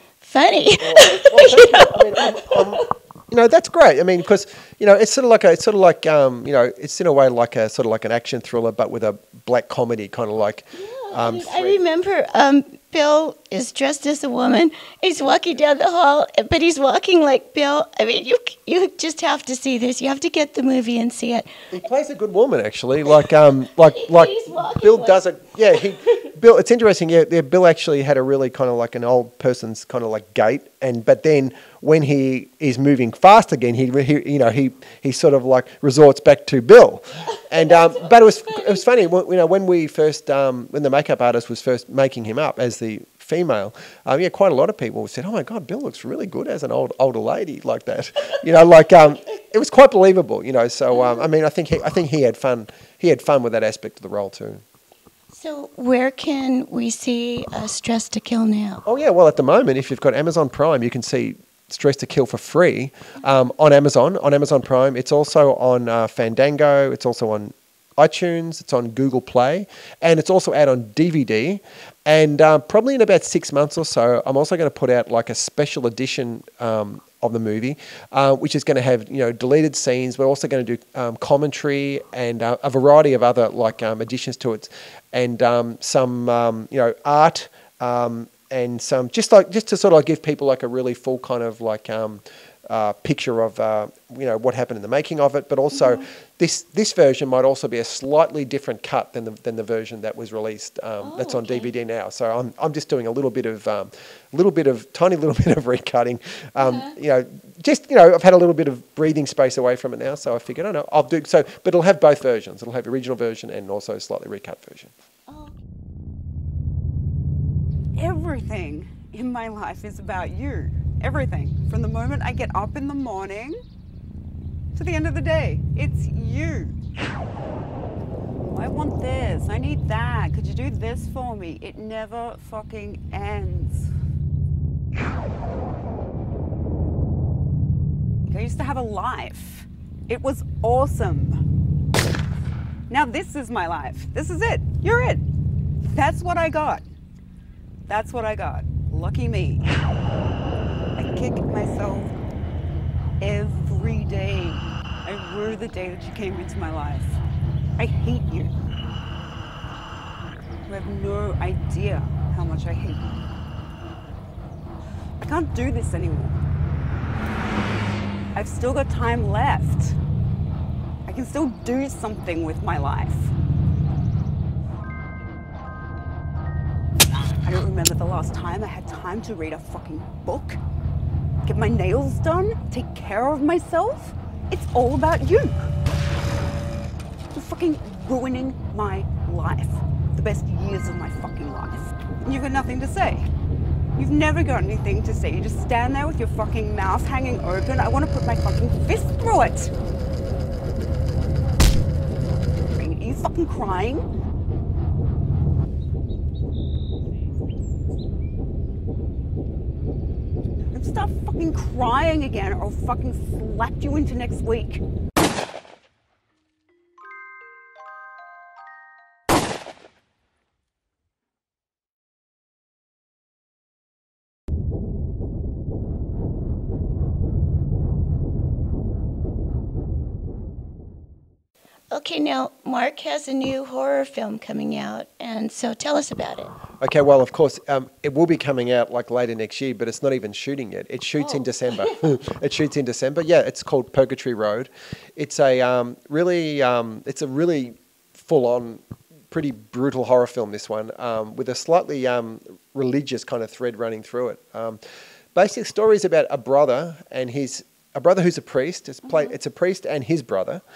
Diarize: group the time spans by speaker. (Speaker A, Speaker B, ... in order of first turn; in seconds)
Speaker A: 0.2-2.9, 10.7-21.5, 23.9-25.2, 37.4-38.8, 50.9-51.2, 55.3-58.8, 95.7-96.0, 101.0-101.7, 106.6-106.9, 115.3-115.5, 231.9-236.5, 241.2-241.9
Speaker B: 0.8-11.8, 21.7-54.6, 58.8-114.9, 236.8-254.8, 255.3-260.6
Speaker C: 118.0-123.6, 124.7-126.8, 128.4-133.8, 138.3-141.4, 142.9-145.2, 145.8-146.9, 147.9-149.6, 151.0-152.1, 153.2-157.2, 157.8-158.5, 160.7-163.3, 165.2-166.4, 168.3-170.0, 171.1-173.3, 177.4-180.6, 181.4-185.6, 187.3-193.3, 193.9-199.7, 202.7-204.0, 210.7-214.8